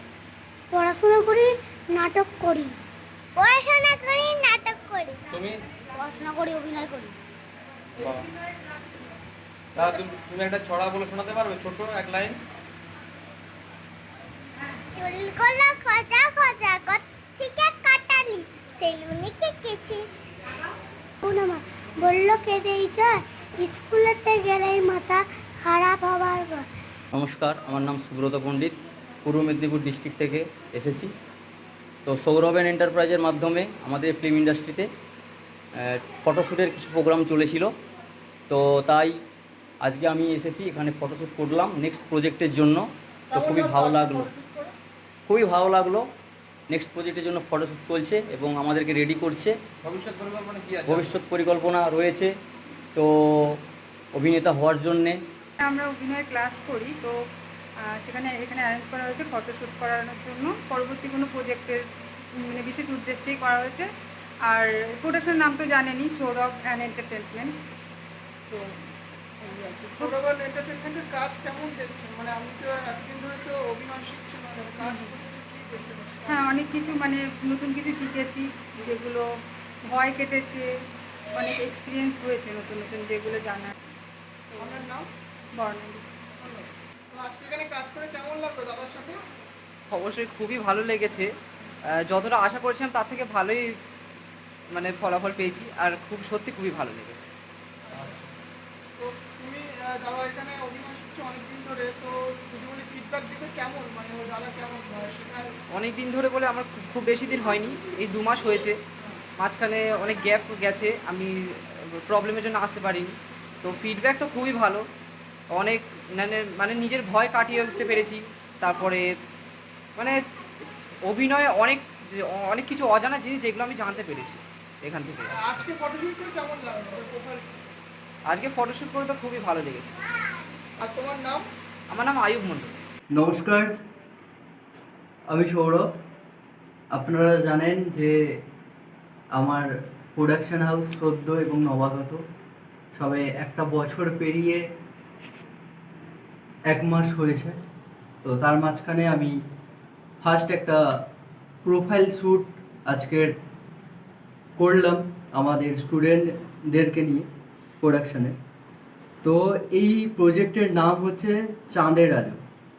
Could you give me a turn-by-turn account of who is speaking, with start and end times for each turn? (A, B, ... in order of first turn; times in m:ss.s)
0:00.7-0:02.8 A
0:03.4-0:05.2 A
0:05.3-0:05.6 B
0:06.0-0:07.1 A
0:08.0-0:08.3 B
0:09.8-0:12.4 B
0:15.0-0:20.0 A
0:21.2-0:26.6 A
0:27.1-0:31.1 C
0:32.1-0:34.9 C
0:35.8-0:37.7 C
0:38.5-0:39.2 C
0:39.8-0:44.3 C
0:43.3-0:44.7 D
0:45.3-0:46.1 C
0:46.7-0:49.6 C
0:49.8-0:51.2 B
0:50.8-0:52.3 C
0:53.0-0:53.6 C
0:54.1-0:55.2 C
0:55.6-0:57.2 E
0:57.9-1:01.8 E
1:02.4-1:03.9 E
1:04.4-1:07.5 E
1:09.6-1:16.5 D
1:14.8-1:15.1 E
1:16.3-1:19.3 E
1:19.9-1:20.7 E
1:21.3-1:23.8 E
1:24.6-1:24.8 E
1:24.6-1:25.1 D
1:25.6-1:26.1 E
1:26.4-1:29.2 D
1:29.9-1:31.3 F
1:32.0-1:33.7 F
1:34.7-1:37.3 F
1:39.0-1:45.5 D
1:45.7-1:48.8 F
1:49.4-1:54.9 F
1:55.5-1:59.1 F
2:01.1-2:05.4 F
2:05.3-2:07.6 D
2:08.3-2:10.0 F
2:10.8-2:11.4 D
2:11.9-2:12.8 F
2:13.1-2:13.7 G
2:15.3-2:15.9 G
2:16.9-2:18.1 G
2:19.3-2:22.2 G
2:23.0-2:24.6 G
2:26.7-2:27.6 G
2:28.2-2:29.4 G
2:30.2-2:30.8 G
2:31.6-2:33.3 G
2:34.6-2:37.3 G
2:37.8-2:38.4 G
2:39.2-2:42.4 G